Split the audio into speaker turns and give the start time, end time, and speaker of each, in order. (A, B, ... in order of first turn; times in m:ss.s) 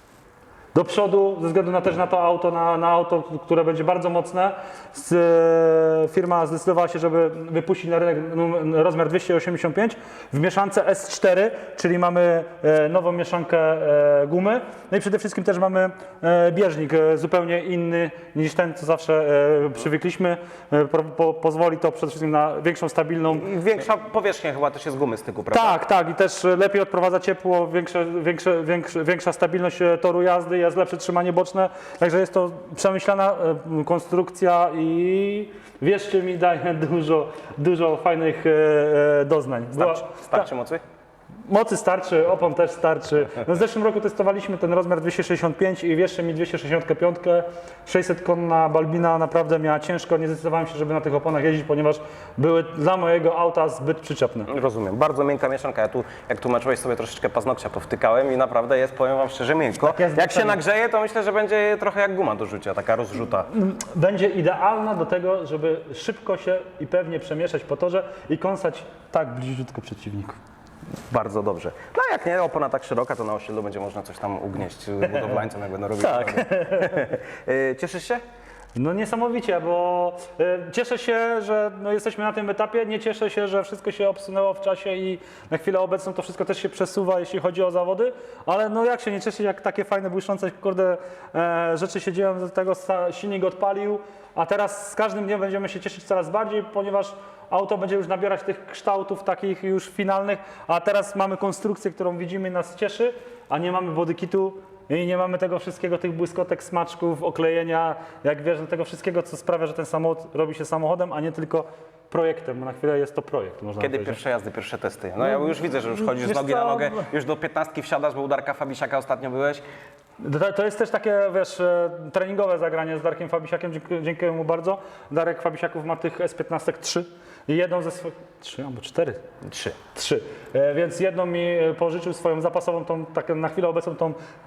0:00.7-0:23.5 A
0:23.3-0:25.8 B
0:25.5-0:40.5 A
0:39.7-0:40.8 B
0:41.5-0:54.5 A
0:54.5-1:03.5 B
0:59.8-1:00.6 A
1:03.5-1:10.4 A
1:11.1-1:18.2 B
1:15.0-1:15.4 A
1:16.0-1:17.0 A
1:18.8-1:54.2 A
1:53.8-1:59.6 B
1:55.2-1:57.1 A
2:00.2-2:09.2 A
2:09.4-2:09.8 B
2:09.9-2:14.2 A